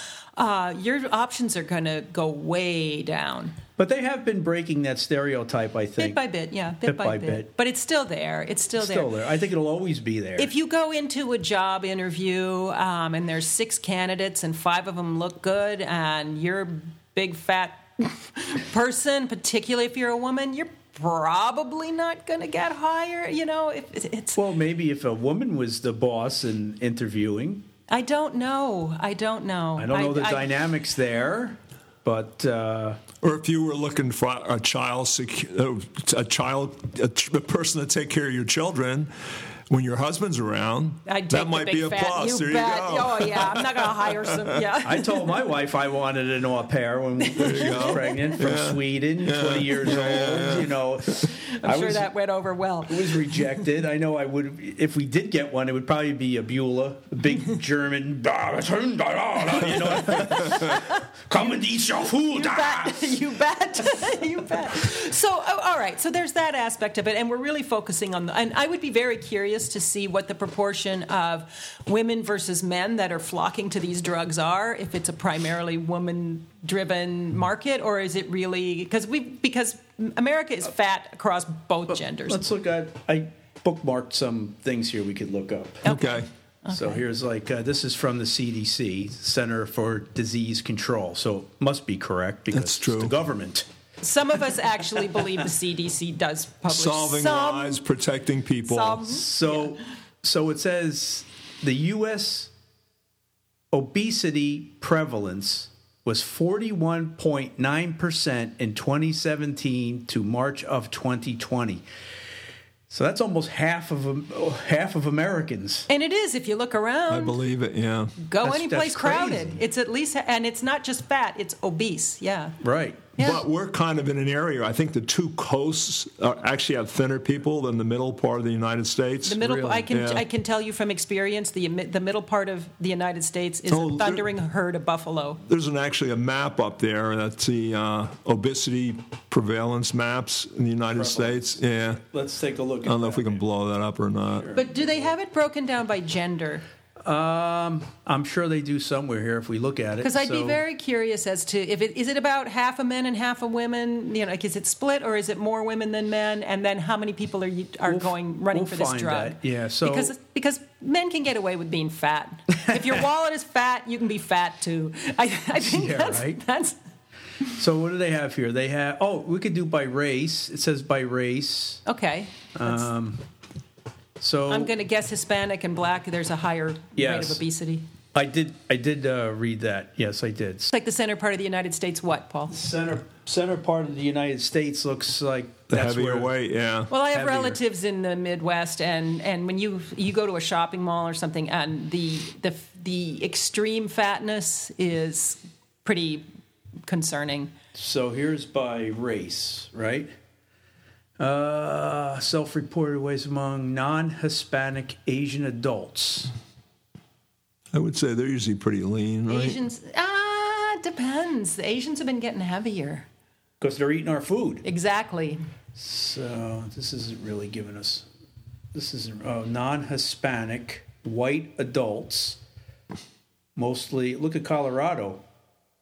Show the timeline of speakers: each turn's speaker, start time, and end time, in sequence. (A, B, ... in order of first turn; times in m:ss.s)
0:00.4-0:03.6 A
0:03.8-0:06.2 B
0:06.0-0:09.1 A
0:06.8-0:07.5 B
0:08.8-0:10.5 B
0:10.4-0:24.4 A
0:24.4-0:27.6 B
0:27.9-0:30.5 A
0:29.8-0:33.0 B
0:33.2-0:44.7 C
0:41.0-0:45.3 A
0:44.8-0:52.1 B
0:47.2-0:48.3 A
0:47.4-0:50.8 C
0:51.2-0:53.6 A
0:52.9-1:03.2 B
1:00.2-1:00.7 C
1:00.3-1:01.0 A
1:02.3-1:22.4 A
1:22.2-1:25.8 B
1:25.8-1:27.0 A
1:25.8-1:26.3 C
1:26.7-1:33.6 B
1:32.5-1:33.1 C
1:34.0-1:37.8 A
1:36.7-1:39.0 C
1:38.7-1:39.7 A
1:39.1-1:42.5 B
1:43.7-1:51.8 B
1:52.9-1:55.9 B
1:55.9-1:57.4 A
1:57.1-1:58.1 C
1:58.2-2:02.6 A
1:58.4-1:59.6 B
2:02.6-2:03.1 B
2:03.2-2:03.4 A
2:03.2-2:09.4 C
2:09.2-2:15.4 A
2:09.4-2:09.8 B
2:09.9-2:10.2 C
2:13.7-2:14.2 C
2:15.4-2:22.0 C
2:20.9-2:21.5 B
2:22.0-2:23.4 B
2:22.8-2:24.5 C
2:24.3-2:25.1 B
2:24.5-2:26.6 A
2:27.0-2:30.6 B
2:30.0-2:46.8 A
2:37.9-2:40.1 B
2:45.6-2:46.4 B
2:47.4-2:51.8 B
2:51.8-2:52.9 A
2:52.5-2:53.2 B
2:54.2-2:54.7 B
2:54.5-2:57.8 A
2:57.0-2:57.4 B
2:58.1-3:00.7 B
3:00.7-3:02.5 A
3:02.5-3:06.3 B
3:05.7-3:06.9 C
3:06.9-3:16.2 A
3:07.1-3:07.6 B
3:16.9-3:17.5 A
3:17.7-3:20.1 B
3:21.2-3:26.3 B
3:27.7-3:29.6 C
3:29.3-3:33.1 A
3:33.6-3:34.6 B
3:34.6-3:35.4 A
3:35.8-3:38.0 B
3:38.7-3:42.4 B
3:43.6-3:45.2 B